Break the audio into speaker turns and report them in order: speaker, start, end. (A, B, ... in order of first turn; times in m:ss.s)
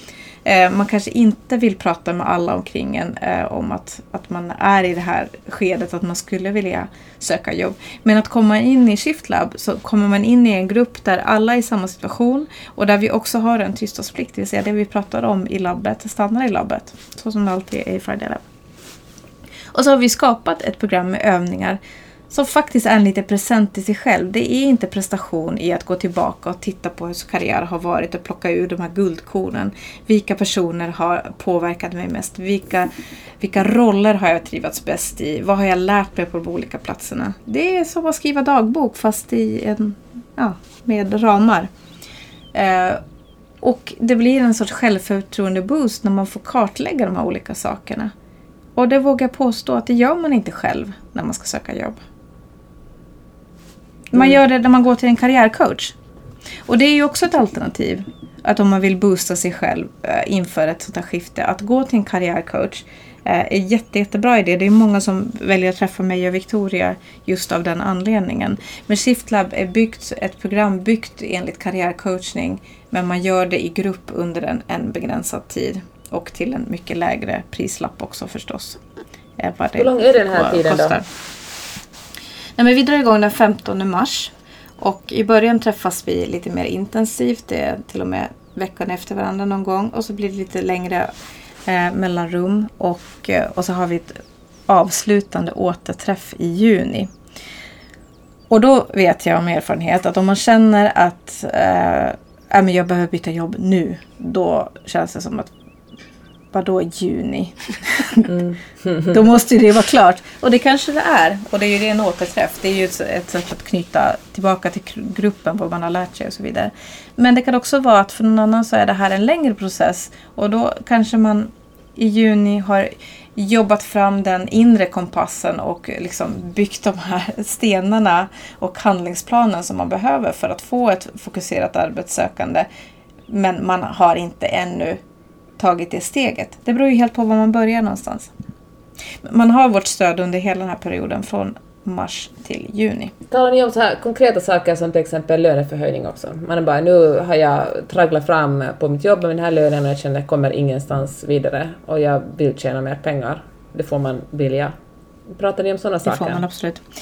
0:00.4-0:18.4 A
0:19.7-0:21.8 A
0:22.3-0:41.7 A
0:42.5-0:43.0 A
0:43.6-0:48.1 A
0:48.8-0:52.0 A
0:54.1-0:55.9 A
0:56.6-1:18.8 A
1:19.4-1:21.0 A
1:19.8-1:21.0 B
1:22.6-1:31.1 A
1:31.6-1:37.1 A
1:38.5-1:45.5 A
1:46.5-1:48.4 A
1:48.3-1:49.1 B
1:49.1-2:12.7 A
2:13.3-2:15.0 A
2:15.6-2:18.3 A
2:19.2-2:23.1 A
2:23.3-2:34.7 B
2:35.3-2:36.4 B
2:36.0-2:36.9 A